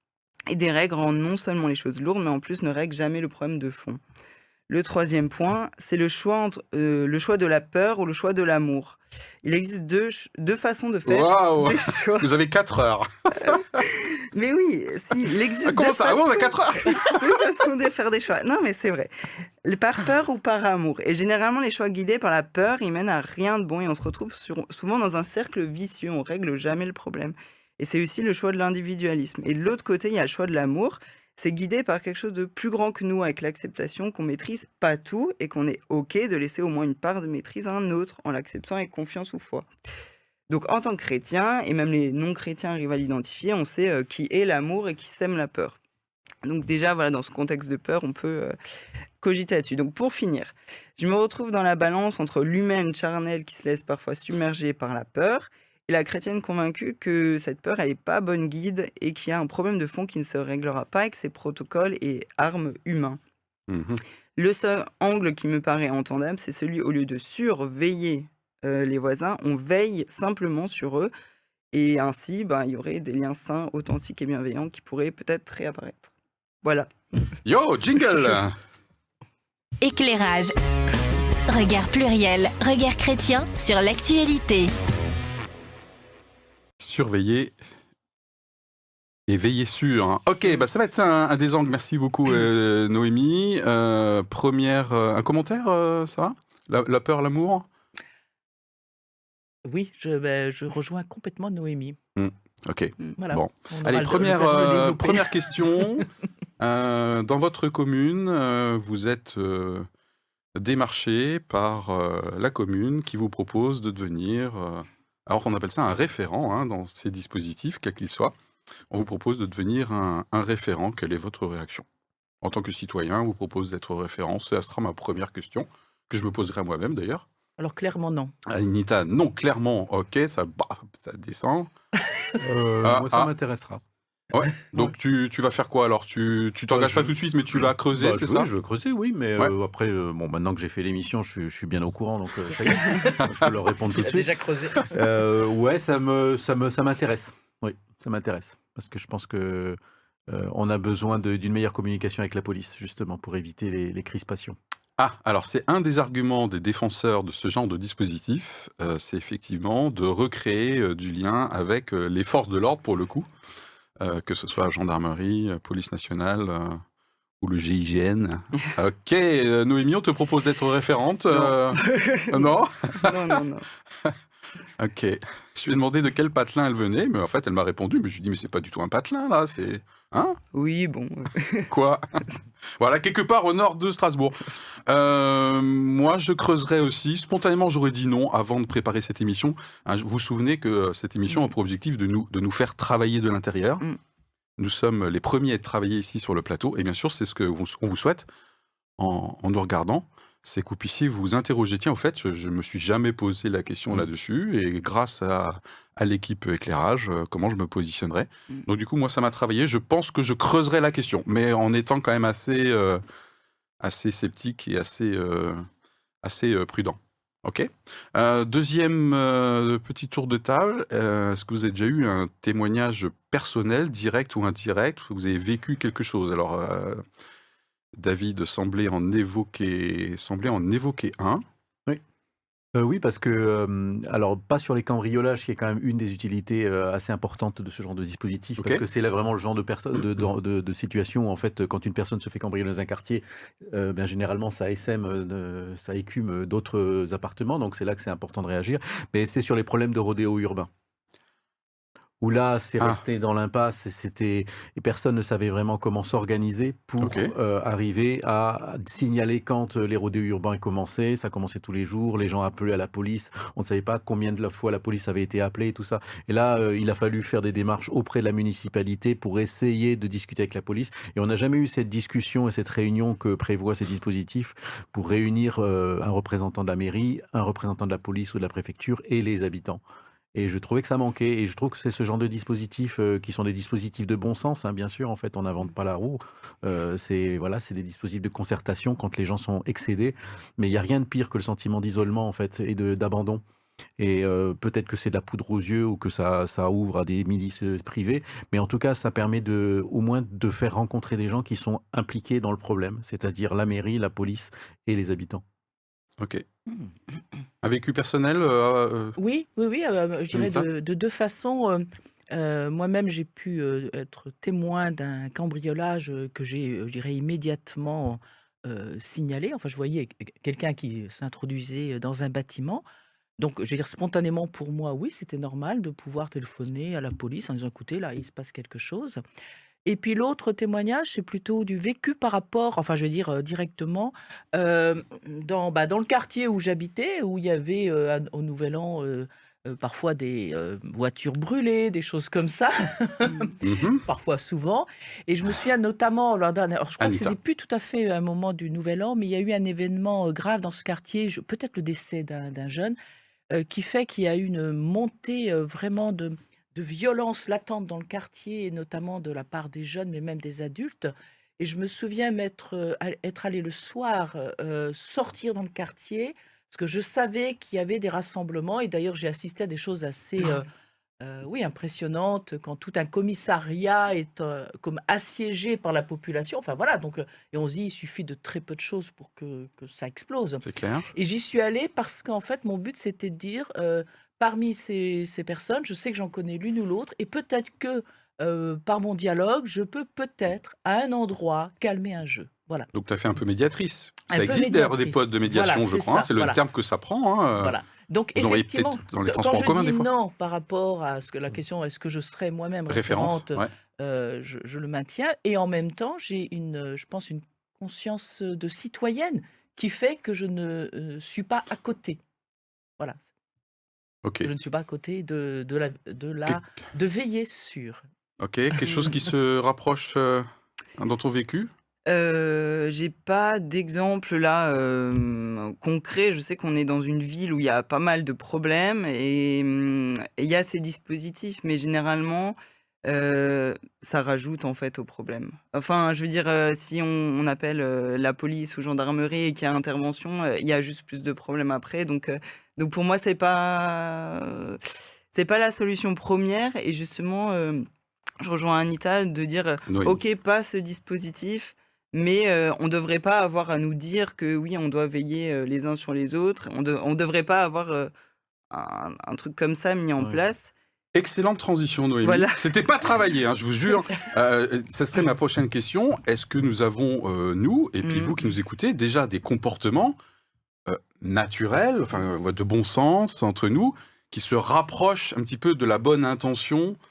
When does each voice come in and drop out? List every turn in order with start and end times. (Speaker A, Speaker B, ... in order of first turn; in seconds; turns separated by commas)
Speaker A: 0.5-4.0, Speaker A: 4.7-12.3, Speaker B: 11.1-13.8, Speaker A: 13.4-39.7, Speaker B: 15.6-17.4, Speaker A: 40.5-45.8, Speaker A: 46.4-48.5, Speaker A: 49.2-63.2, Speaker B: 63.7-64.0, Speaker A: 64.3-71.1, Speaker A: 71.7-76.1, Speaker A: 76.6-76.9, Speaker B: 77.4-78.5, Speaker C: 79.8-80.5, Speaker C: 81.5-84.7, Speaker B: 86.8-87.5, Speaker B: 89.3-97.7, Speaker D: 99.6-102.0, Speaker B: 102.2-106.1, Speaker D: 103.2-106.0, Speaker B: 106.6-109.9, Speaker B: 110.5-118.3, Speaker B: 118.9-121.8, Speaker B: 122.4-127.2, Speaker D: 127.6-128.3, Speaker B: 128.4-131.7, Speaker E: 132.4-133.8, Speaker B: 132.8-133.3, Speaker B: 134.3-138.5, Speaker E: 134.7-134.9, Speaker E: 136.7-154.6, Speaker D: 143.9-145.0, Speaker B: 155.0-163.3, Speaker B: 164.0-166.8, Speaker B: 167.4-173.2, Speaker A: 171.3-173.7, Speaker B: 174.8-180.4, Speaker A: 180.5-181.7, Speaker B: 181.7-182.2, Speaker B: 182.8-193.8, Speaker A: 191.3-191.5, Speaker B: 194.6-198.3, Speaker B: 199.0-213.0, Speaker B: 213.8-215.7, Speaker B: 216.2-227.0, Speaker B: 228.0-231.4, Speaker E: 232.7-250.7, Speaker E: 252.2-279.8, Speaker B: 257.0-257.3, Speaker E: 280.3-293.4, Speaker E: 294.0-305.4, Speaker B: 306.2-306.4, Speaker B: 307.6-309.1, Speaker D: 309.1-322.8, Speaker B: 310.3-310.6, Speaker D: 323.4-329.2, Speaker D: 329.9-352.9, Speaker B: 343.6-344.0, Speaker B: 347.0-347.3, Speaker D: 353.5-370.7, Speaker D: 371.2-392.9, Speaker B: 380.6-381.1, Speaker B: 392.9-397.7, Speaker D: 394.3-396.6, Speaker D: 397.6-412.2, Speaker B: 398.4-400.1, Speaker B: 402.9-403.7, Speaker D: 413.0-413.2, Speaker D: 414.4-418.0, Speaker B: 418.4-420.4, Speaker B: 421.0-421.7, Speaker A: 422.1-444.8, Speaker A: 445.3-447.9, Speaker A: 448.4-458.1, Speaker B: 449.9-450.2, Speaker A: 458.7-460.7, Speaker B: 461.1-470.2, Speaker A: 462.2-462.8, Speaker A: 468.0-468.4, Speaker B: 470.9-477.0